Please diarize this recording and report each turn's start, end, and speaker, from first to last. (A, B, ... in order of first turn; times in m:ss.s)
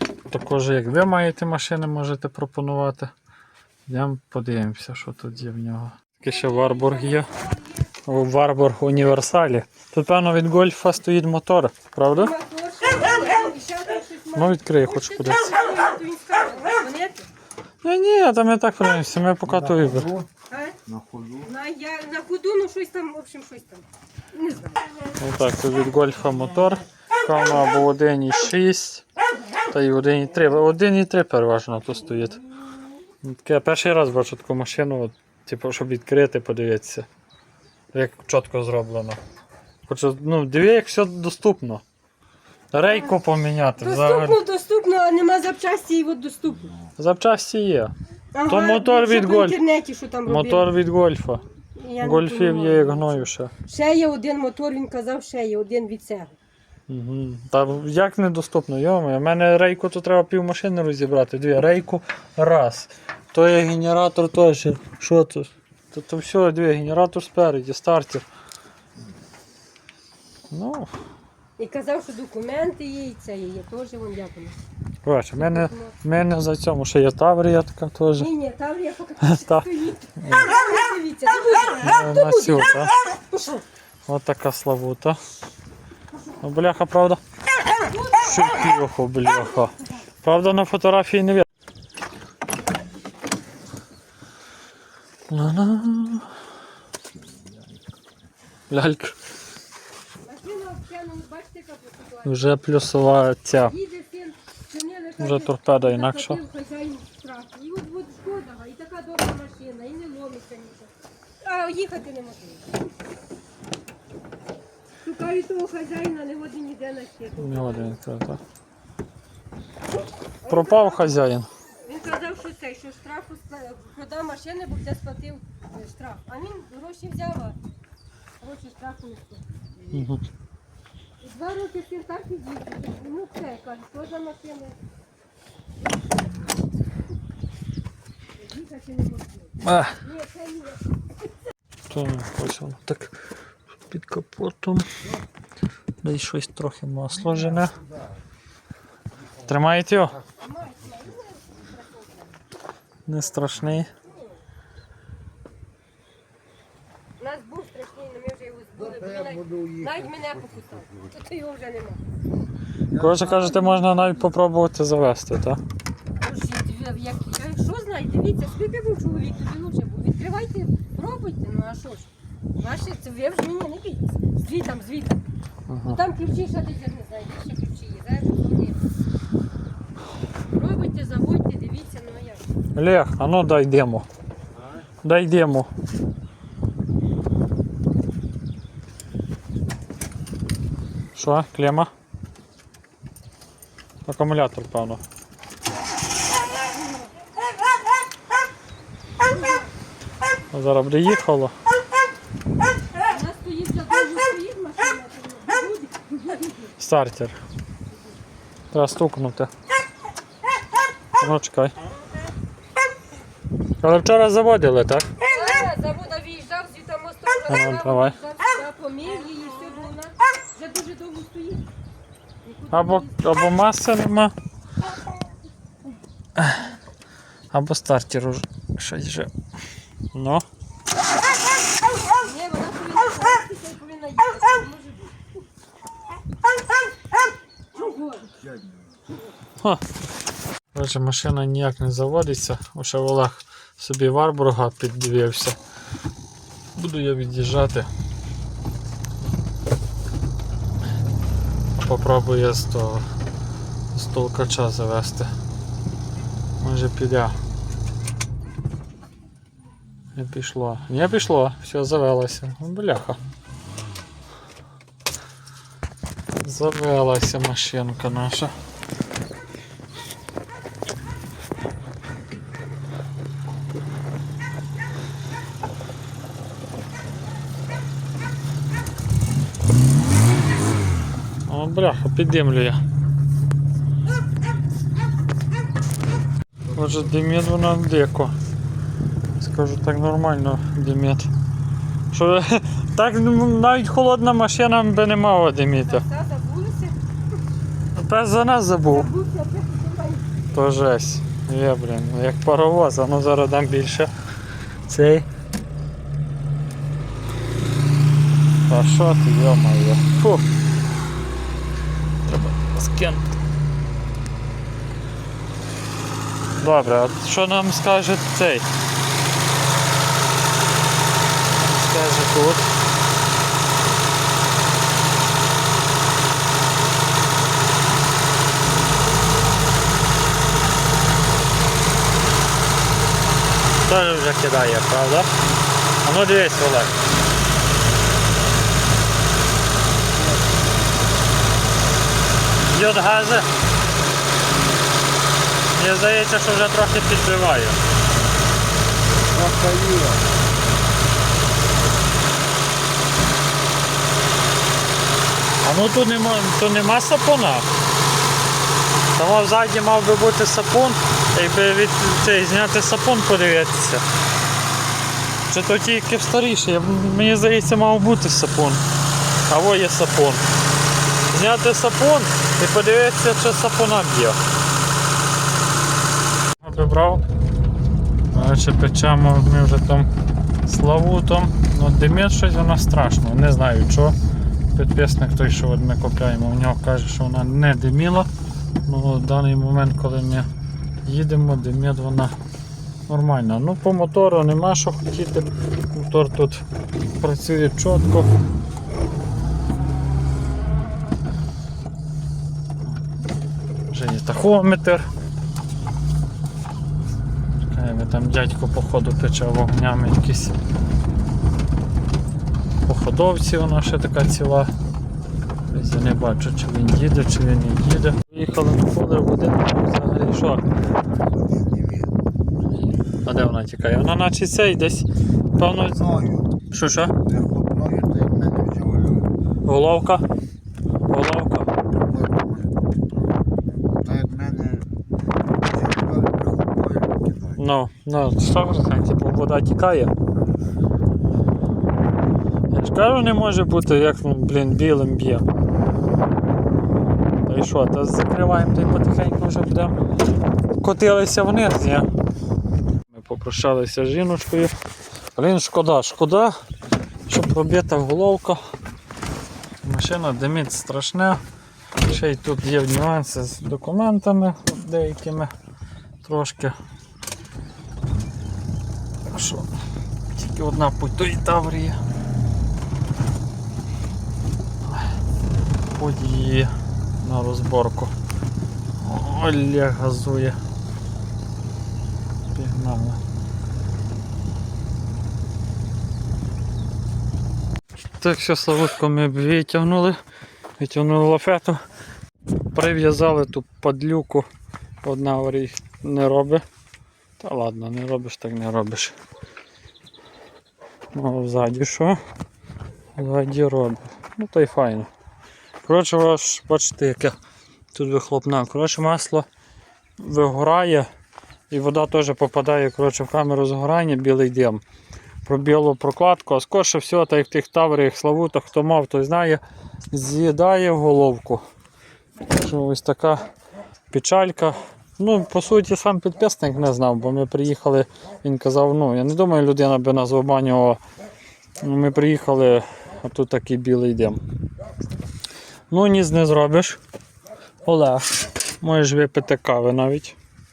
0:00.3-0:03.1 A
0:03.9-0:07.3 A
0:06.4-0:07.4 B
0:08.0-0:12.3 A
0:12.1-0:17.3 B
0:14.3-0:15.5 A
0:17.8-0:20.2 A
0:19.6-0:20.3 C
0:20.5-0:20.8 B
0:20.9-0:21.5 C
0:21.4-0:24.8 B
0:25.2-0:29.0 A
0:29.7-0:32.4 A
0:33.2-0:37.1 A
0:37.9-0:39.2 A
0:39.9-0:41.8 A
0:42.7-0:44.4 A
0:42.8-0:43.2 B
0:43.8-0:46.7 B
0:47.0-0:47.9 A
0:48.4-0:50.7 B
0:48.4-0:49.6 A
0:50.3-0:51.4 A
0:51.8-0:56.4 B
0:52.0-0:53.5 A
0:56.9-1:08.3 A
1:10.5-1:10.9 A
1:11.6-1:14.6 B
1:15.0-1:18.3 A
1:15.4-1:16.0 B
1:18.2-1:23.6 B
1:19.2-1:20.5 A
1:21.8-1:22.9 A
1:24.1-1:25.2 A
1:26.4-1:27.2 A
1:27.9-1:28.4 B
1:28.1-1:31.5 A
1:35.3-1:36.3 A
1:38.7-1:39.2 A
1:40.2-1:42.6 B
1:42.2-1:43.8 A
1:43.6-1:52.8 B
1:45.2-1:46.4 A
1:55.0-1:58.0 B
1:57.4-1:58.4 A
2:00.4-2:01.2 B
2:00.5-2:01.5 A
2:01.8-2:07.6 B
2:08.4-2:09.7 B
2:09.9-2:10.2 A
2:11.2-2:14.8 B
2:18.4-2:20.8 B
2:19.6-2:20.0 A
2:21.9-2:23.2 A
2:23.9-2:24.9 A
2:26.0-2:27.8 A
2:29.4-2:30.2 A
2:30.4-2:32.4 B
2:33.1-2:33.9 A
2:37.2-2:42.0 B
2:38.9-2:40.0 C
2:42.9-2:43.2 C
2:42.9-2:45.6 A
2:43.3-2:44.0 B
2:46.2-2:55.2 B
2:55.7-2:56.0 A
2:55.9-2:58.9 B
3:00.5-3:02.5 B
3:02.8-3:04.1 A
3:05.0-3:05.7 A
3:11.2-3:11.9 A
3:14.1-3:15.0 A
3:19.4-3:19.7 B
3:20.5-3:21.5 A
3:23.1-3:26.7 B
3:26.8-3:27.4 A
3:28.7-3:29.5 A
3:31.2-3:31.8 A
3:33.8-3:35.1 A
3:35.2-3:41.7 B
3:37.5-3:38.2 A
3:42.4-3:43.2 B
3:42.7-3:44.3 A
3:46.4-3:46.7 A
3:47.5-3:49.3 A
3:50.1-3:50.4 A
3:52.2-3:55.4 B
3:57.7-3:58.4 B
4:00.7-4:05.6 A
4:06.8-4:07.9 A
4:11.8-4:13.0 A
4:13.9-4:15.3 A
4:16.6-4:17.4 A
4:20.2-4:23.2 A
4:26.4-4:28.6 A
4:41.5-4:42.8 A
4:46.7-4:48.3 A
4:49.4-4:51.3 A
4:52.1-4:56.0 A
4:55.9-4:57.0 B
4:57.9-4:59.1 A
4:58.8-5:00.3 B
5:00.5-5:04.1 A
5:04.9-5:05.3 A
5:08.7-5:10.5 A
5:12.2-5:13.3 A
5:16.6-5:18.7 A
5:21.5-5:22.7 A
5:33.8-5:35.3 A
5:36.0-5:37.0 A
5:40.2-5:40.7 C
5:42.7-5:43.5 A
5:45.7-5:47.8 A
5:49.3-5:50.3 C
5:55.6-5:57.7 A
5:59.2-6:04.0 A
6:05.5-6:08.8 A
6:09.5-6:10.4 A
6:11.3-6:14.4 A
6:16.6-6:17.2 A
6:18.3-6:20.1 A
6:20.6-6:24.2 A
6:24.7-6:28.3 A
6:28.9-6:30.5 A
6:31.0-6:32.4 A
6:33.1-6:36.7 A
6:37.2-6:38.3 A
6:43.9-6:45.1 A
6:47.6-6:50.6 A
6:52.9-6:54.7 A
6:55.7-7:00.6 A
7:01.1-7:02.2 C
7:03.2-7:06.1 A
7:05.6-7:06.5 C
7:06.7-7:07.1 A
7:07.2-7:09.3 C
7:09.7-7:10.2 A
7:11.1-7:11.7 A
7:12.0-7:12.7 C
7:13.8-7:14.9 C
7:15.6-7:17.6 C
7:17.6-7:20.1 A
7:22.7-7:25.4 A
7:27.5-7:30.0 A
7:30.8-7:32.1 A
7:33.1-7:34.7 A
7:35.4-7:36.5 A
7:37.3-7:38.6 A
7:39.8-7:41.4 A
7:42.0-7:45.5 A
7:46.2-7:46.8 A
7:49.3-7:49.7 A
7:50.4-7:52.0 A
7:55.9-7:58.1 A
7:59.0-8:00.6 A
8:02.5-8:03.2 A
8:08.2-8:10.2 A
8:10.8-8:11.8 A
8:12.7-8:14.5 A
8:15.0-8:16.6 A
8:17.4-8:19.1 A
8:21.1-8:22.2 A
8:23.2-8:25.1 A
8:25.8-8:27.4 A
8:27.9-8:29.5 A
8:30.2-8:31.1 A
8:31.7-8:34.8 A
8:35.4-8:41.6 A
8:42.5-8:43.5 A
8:44.1-8:51.0 A
8:51.8-8:54.4 A
8:55.9-8:57.0 A
8:57.8-9:00.4 A